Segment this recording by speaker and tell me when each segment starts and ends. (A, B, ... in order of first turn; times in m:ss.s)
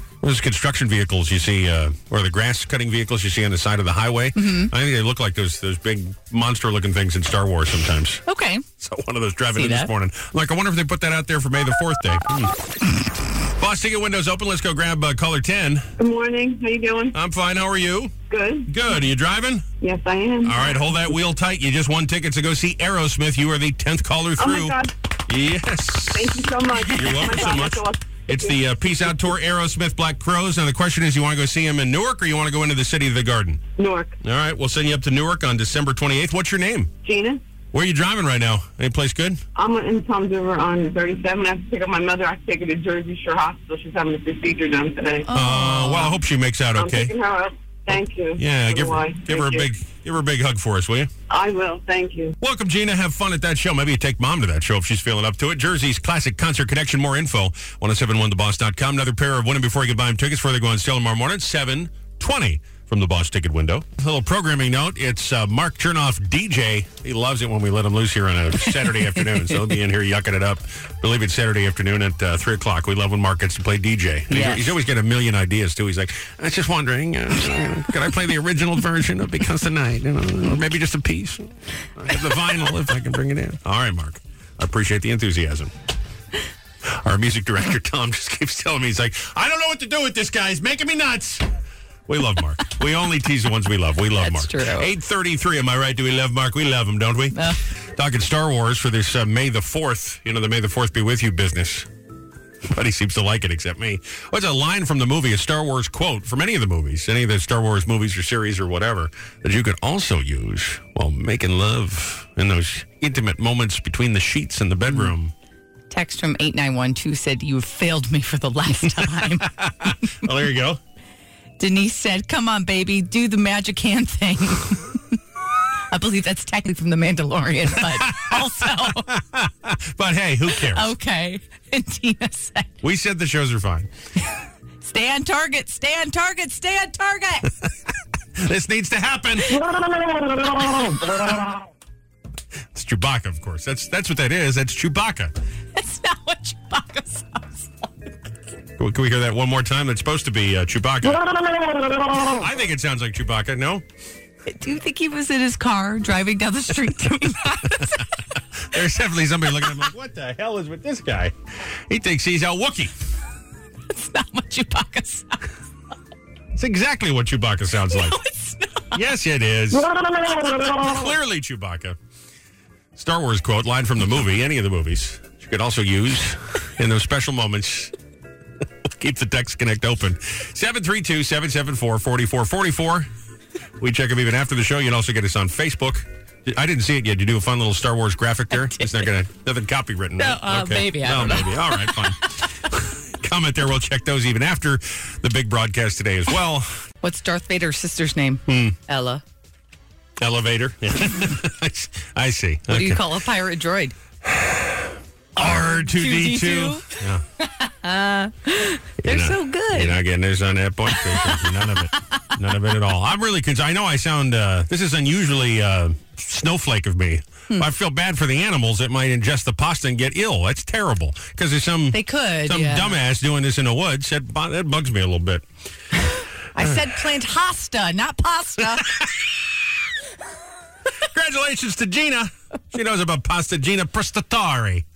0:00.2-0:08.2 A
0:04.4-0:04.7 B
0:08.3-0:08.6 B
0:08.8-0:12.5 A
0:09.5-0:09.9 B
0:13.6-0:15.9 A
0:16.0-0:17.2 C
0:17.1-0:18.1 A
0:18.3-0:18.7 C
0:18.7-0:19.6 A
0:19.8-0:20.8 C
0:20.4-0:33.6 A
0:24.4-0:24.9 C
0:26.1-0:29.4 C
0:33.8-0:34.2 C
0:34.2-0:36.9 A
0:37.0-0:37.4 C
0:37.7-0:39.4 A
0:39.5-0:45.3 C
0:45.3-0:46.2 B
0:45.3-0:47.1 A
0:46.7-0:49.7 C
0:48.3-0:51.1 A
0:51.3-0:52.3 C
0:52.4-1:25.7 A
1:08.8-1:09.6 B
1:14.3-1:14.8 B
1:26.9-1:31.4 A
1:32.1-1:37.4 A
1:34.2-1:34.9 B
1:37.9-1:41.9 A
1:42.7-1:55.3 A
1:54.9-1:55.1 B
1:55.9-2:00.3 B
1:59.0-2:00.8 A
2:01.6-2:05.2 B
2:05.9-2:09.1 B
2:07.8-2:10.9 A
2:10.5-2:12.7 B
2:12.8-2:13.9 A
2:14.8-2:17.5 B
2:18.4-2:19.5 A
2:19.4-2:19.9 B
2:20.4-2:21.3 B
2:22.7-2:25.3 A
2:25.7-2:27.9 B
2:28.8-2:31.2 A
2:32.2-2:33.8 A
2:34.5-2:38.0 B
2:37.4-2:38.0 A
2:38.7-2:41.3 A
2:41.9-2:42.9 A
2:43.9-2:45.4 B
2:46.5-2:48.2 A
2:47.9-2:49.0 B
2:48.9-2:52.0 A
2:53.0-2:57.9 A
2:58.9-3:03.1 A
3:03.8-3:16.7 A
3:08.5-3:09.1 B
3:10.2-3:12.1 B
3:17.0-3:19.2 B
3:18.5-3:18.8 A
3:20.2-3:23.0 A
3:22.7-3:23.9 B
3:24.2-3:27.2 A
3:25.4-3:30.0 B
3:29.0-3:45.4 A
3:30.9-3:32.2 B
3:41.9-3:43.0 B
3:46.1-3:49.0 B
3:48.8-3:49.2 A
3:51.0-3:54.8 A